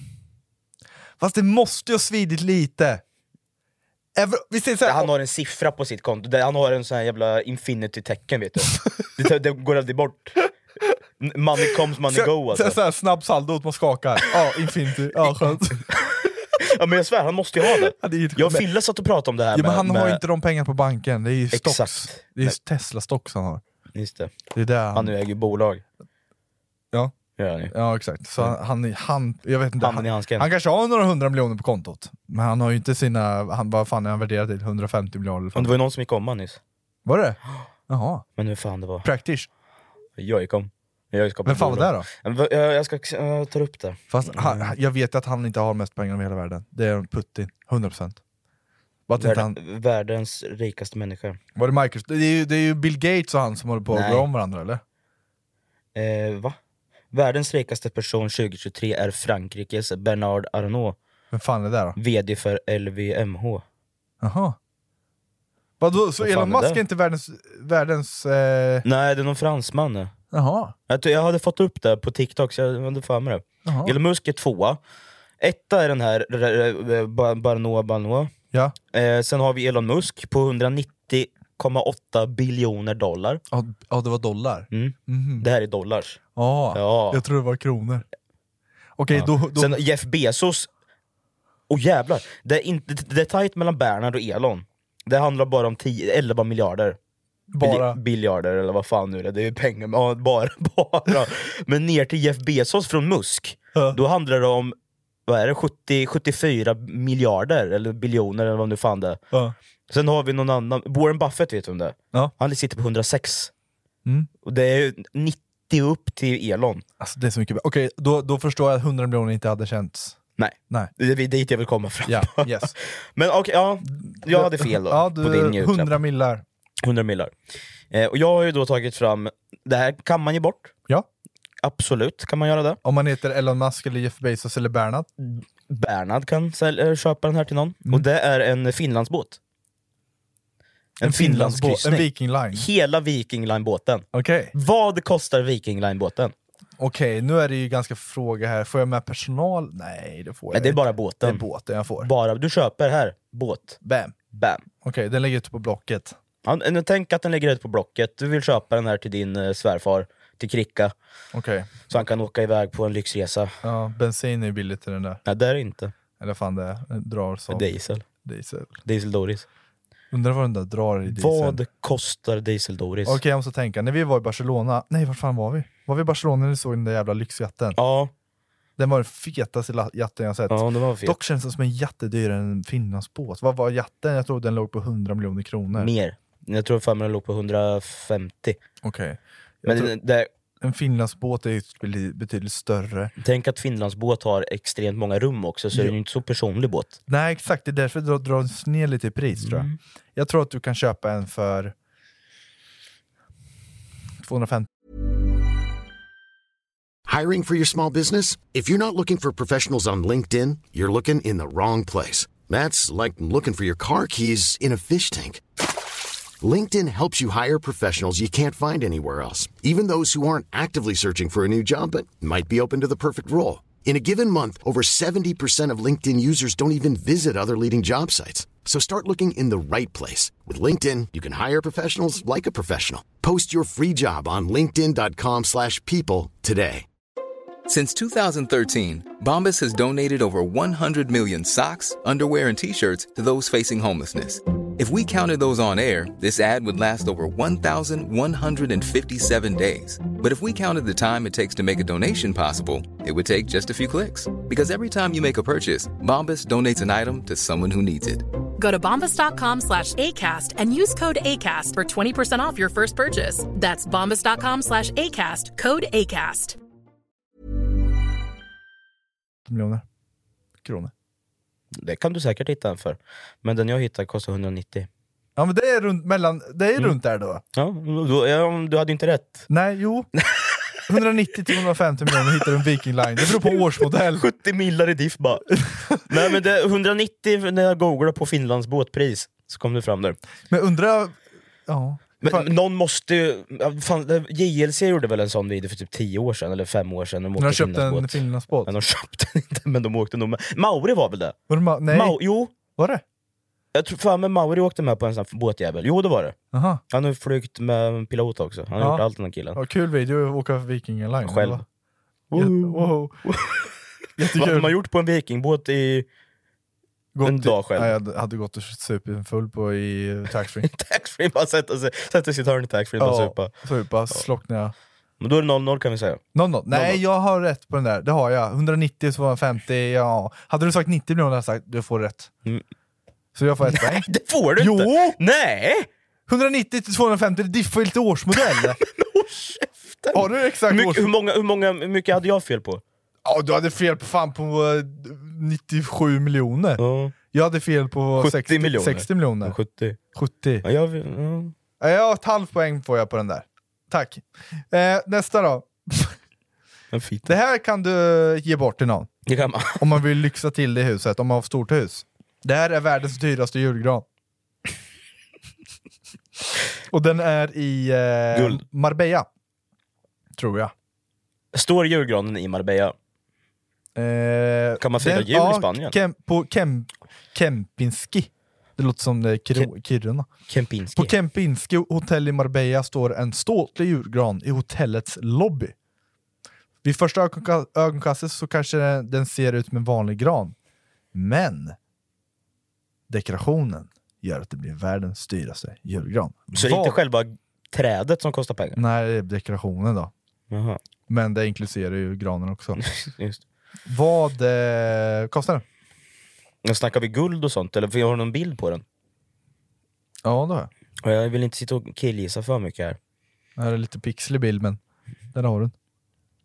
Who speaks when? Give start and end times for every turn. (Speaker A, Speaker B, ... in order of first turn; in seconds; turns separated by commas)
Speaker A: 1.2-3.0, Speaker A: 4.2-5.1, Speaker B: 4.8-10.5, Speaker B: 11.2-12.8, Speaker A: 12.1-15.9, Speaker B: 15.9-20.2, Speaker A: 17.6-18.7, Speaker A: 19.5-23.6, Speaker B: 21.5-22.5, Speaker B: 23.9-24.3, Speaker A: 24.5-25.1, Speaker B: 24.9-25.8, Speaker B: 27.4-27.7, Speaker A: 27.7-35.7, Speaker B: 29.8-30.5, Speaker B: 35.5-36.6, Speaker A: 37.0-38.2, Speaker B: 38.4-39.0, Speaker A: 39.0-39.5, Speaker B: 40.2-44.7, Speaker A: 41.4-42.1, Speaker A: 44.1-48.2, Speaker A: 49.1-49.5, Speaker B: 49.2-51.4, Speaker A: 51.5-54.8, Speaker B: 53.9-54.3, Speaker B: 55.9-56.6, Speaker B: 57.1-61.0, Speaker A: 61.3-62.0, Speaker B: 62.0-63.6, Speaker A: 64.2-64.6, Speaker A: 65.8-68.8, Speaker B: 66.2-66.8, Speaker B: 68.8-70.1, Speaker A: 70.3-70.7, Speaker B: 70.9-74.8, Speaker A: 73.6-74.0, Speaker B: 75.4-78.3, Speaker B: 78.9-83.4, Speaker A: 83.5-85.5, Speaker B: 84.7-86.2, Speaker A: 86.3-88.0, Speaker B: 86.7-87.2, Speaker A: 89.0-89.8, Speaker B: 89.1-90.7, Speaker B: 91.7-97.0, Speaker A: 97.5-98.0, Speaker B: 97.6-104.7, Speaker B: 105.3-109.2, Speaker B: 109.9-113.5, Speaker B: 114.4-116.8, Speaker A: 117.0-120.2, Speaker B: 120.4-125.9, Speaker A: 122.1-122.7, Speaker A: 123.9-126.4, Speaker B: 126.8-127.3, Speaker B: 127.9-130.7, Speaker B: 131.6-132.8, Speaker A: 132.8-135.1, Speaker B: 135.2-139.4, Speaker B: 141.0-146.3, Speaker A: 141.0-142.7, Speaker A: 144.1-144.5, Speaker A: 146.8-152.1, Speaker B: 150.5-151.4, Speaker B: 152.0-153.8, Speaker A: 153.8-154.1, Speaker B: 154.3-154.6, Speaker A: 154.8-156.2, Speaker B: 156.4-160.9, Speaker A: 161.3-161.7, Speaker B: 161.9-163.5, Speaker A: 163.6-165.2, Speaker B: 165.2-165.9, Speaker A: 166.2-168.8, Speaker B: 167.5-168.0, Speaker B: 168.8-169.4, Speaker A: 170.1-171.6, Speaker B: 171.1-173.2, Speaker A: 173.1-177.8, Speaker B: 177.7-178.1, Speaker A: 178.8-185.9, Speaker B: 180.5-181.2, Speaker B: 185.7-188.6, Speaker A: 188.8-189.9, Speaker B: 189.6-190.3, Speaker A: 190.6-193.1, Speaker B: 193.2-196.9, Speaker A: 197.1-201.7, Speaker B: 199.4-199.8, Speaker A: 204.2-204.7, Speaker C: 207.1-215.4, Speaker C: 216.4-236.8, Speaker D: 237.7-258.3, Speaker E: 258.6-266.6, Speaker A: 269.4-269.8, Speaker A: 270.6-270.9, Speaker B: 271.7-274.9, Speaker A: 275.4-277.4, Speaker B: 277.5-279.5, Speaker A: 279.5-280.1, Speaker B: 280.2-280.6, Speaker A: 280.9-284.2, Speaker B: 283.2-290.2, Speaker A: 285.6-286.0, Speaker A: 290.5-292.5, Speaker B: 292.2-301.4, Speaker A: 297.4-298.7, Speaker A: 301.5-303.0, Speaker B: 301.9-302.5, Speaker B: 303.7-306.4, Speaker A: 306.5-306.8, Speaker B: 306.9-309.6, Speaker A: 308.8-311.6, Speaker B: 311.2-311.6, Speaker B: 312.3-313.7, Speaker A: 312.3-313.2, Speaker A: 314.2-314.8, Speaker B: 314.3-316.1, Speaker A: 317.1-320.7, Speaker B: 317.2-317.9, Speaker B: 320.6-323.5, Speaker A: 323.0-324.7, Speaker B: 325.2-327.0, Speaker A: 326.3-332.3, Speaker A: 333.3-335.2, Speaker B: 333.6-335.9, Speaker A: 336.3-338.8, Speaker B: 338.4-342.8, Speaker A: 340.1-341.1, Speaker A: 343.2-346.8, Speaker B: 346.8-347.1, Speaker A: 347.3-349.6, Speaker B: 348.2-350.0, Speaker A: 350.1-350.6, Speaker B: 350.6-351.5, Speaker A: 351.8-356.2, Speaker B: 356.9-357.3, Speaker A: 357.2-359.1, Speaker B: 359.2-360.0, Speaker A: 359.7-364.0, Speaker A: 366.9-369.3, Speaker B: 368.3-368.6, Speaker A: 370.4-370.7, Speaker B: 371.5-372.9, Speaker A: 373.9-380.3, Speaker B: 374.8-375.9, Speaker B: 380.5-381.1, Speaker A: 380.9-385.7, Speaker A: 386.8-390.5, Speaker A: 391.1-391.8, Speaker A: 393.1-397.0, Speaker B: 396.5-398.8, Speaker A: 398.7-400.1, Speaker B: 400.5-400.8, Speaker A: 401.1-402.8, Speaker B: 402.8-403.4, Speaker A: 403.9-405.6, Speaker B: 406.6-408.8, Speaker A: 410.2-410.7, Speaker B: 411.0-413.0, Speaker A: 413.6-414.8, Speaker A: 415.3-415.7